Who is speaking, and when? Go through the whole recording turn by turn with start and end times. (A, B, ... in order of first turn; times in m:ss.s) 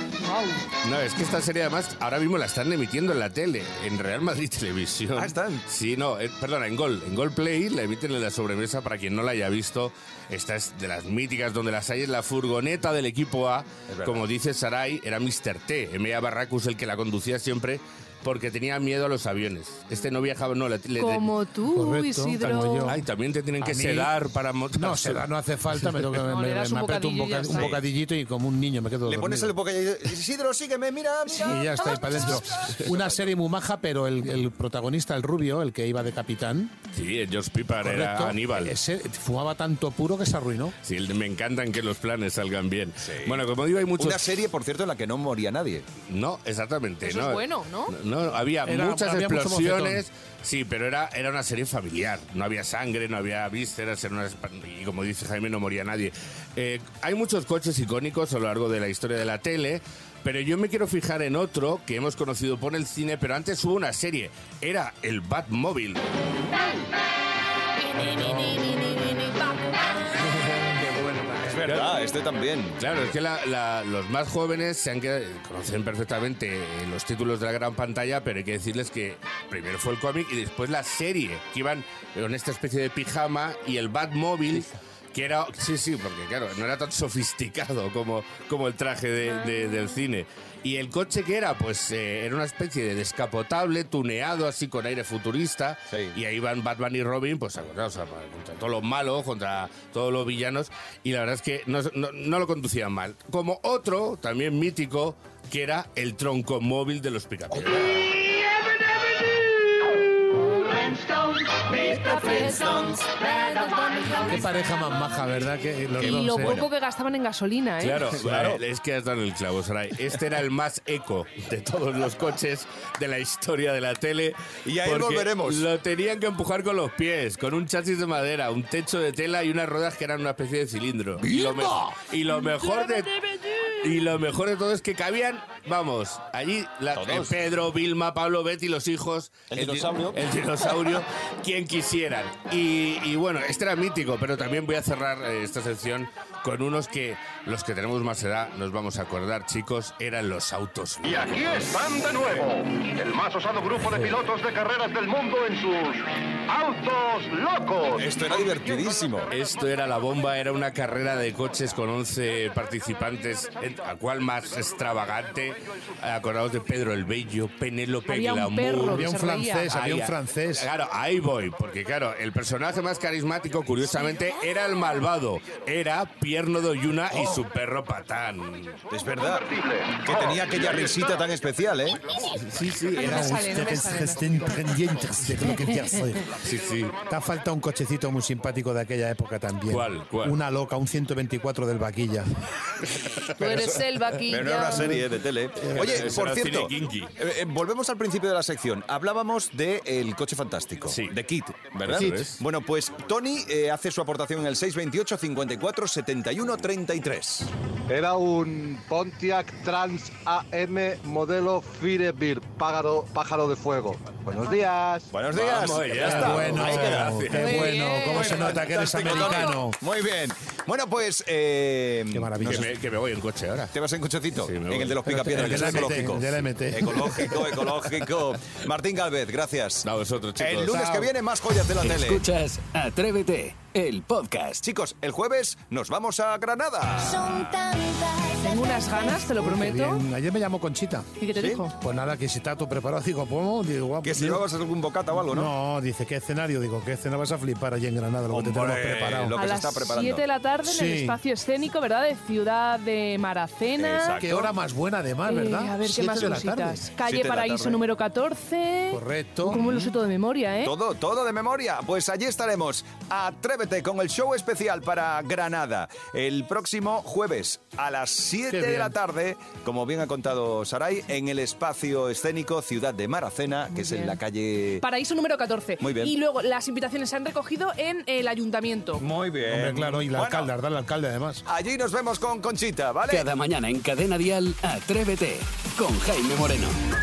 0:00.2-0:00.6 A
0:00.8-0:21.3 B
0:05.2-0:05.6 C
0:13.9-0:14.3 C
0:21.0-0:22.9 A
0:21.7-0:23.0 D
0:22.9-0:25.2 B
0:23.6-0:24.1 D
0:24.7-0:29.5 D
0:26.3-0:27.8 A
0:27.5-0:27.8 C
0:29.0-0:32.2 C
0:31.4-0:36.8 D
0:36.9-0:38.7 B
0:37.8-0:40.8 D
0:40.8-0:44.4 B
0:43.0-0:43.4 C
0:44.0-0:45.9 C
0:46.1-1:06.3 B
0:47.0-0:47.9 A
0:48.6-0:50.0 D
1:07.9-1:09.6 A
1:08.2-1:08.6 D
1:10.1-1:11.7 D
1:11.4-1:12.8 C
1:11.6-1:11.9 B
1:12.8-1:48.0 B
1:52.1-1:54.4 A
1:54.2-1:56.6 D
1:56.0-1:58.1 A
1:56.2-1:56.7 B
1:57.8-2:31.8 B
1:58.2-1:58.6 C
2:04.6-2:05.6 C
2:11.3-2:11.9 C
2:16.9-2:17.4 C
2:19.5-2:20.2 C
2:31.0-2:38.1 E
2:37.9-2:39.3 C
2:39.3-2:49.1 B
2:48.1-2:49.7 A
2:48.8-2:50.7 D
2:49.7-2:58.8 B
2:58.9-3:02.0 C
2:59.5-2:59.9 E
3:02.4-3:03.3 B
3:02.9-3:04.8 A
3:03.0-3:06.3 D
3:06.4-3:07.0 B
3:07.1-3:12.3 D
3:09.7-3:10.3 B
3:13.4-3:15.0 A
3:14.2-3:27.5 C
3:14.7-3:15.0 D
3:15.6-3:16.0 D
3:15.6-3:17.1 B
3:21.8-3:22.4 B
3:27.9-3:35.1 F
3:35.1-3:42.7 C
3:35.3-3:37.8 B
3:36.0-3:39.8 D
3:37.4-3:38.6 A
3:42.1-3:42.7 D
3:42.4-3:43.7 B
3:43.7-3:49.8 C
3:44.3-3:46.1 B
3:45.1-3:47.6 D
3:49.8-3:51.0 B
3:50.4-3:52.3 C
3:50.7-3:51.1 D
3:51.8-3:54.6 G
3:54.6-3:57.5 C
3:58.4-4:00.0 A
3:59.2-4:01.1 D
4:01.2-4:01.7 A
4:01.3-4:01.6 C
4:01.8-4:04.4 D
4:04.0-4:05.5 C
4:05.3-4:09.3 D
4:08.3-4:10.2 C
4:09.3-4:14.2 A
4:10.6-4:11.2 D
4:13.8-4:14.5 C
4:14.2-4:16.8 D
4:15.2-4:20.7 A
4:17.0-4:17.8 C
4:18.9-4:19.6 D
4:19.5-4:19.9 C
4:20.6-4:34.8 C
4:28.5-4:28.9 D
4:33.7-4:34.2 A
4:34.8-4:39.0 A
4:35.8-4:36.1 C
4:39.0-4:40.5 C
4:39.4-4:41.4 D
4:41.4-4:43.2 C
4:43.1-4:46.8 G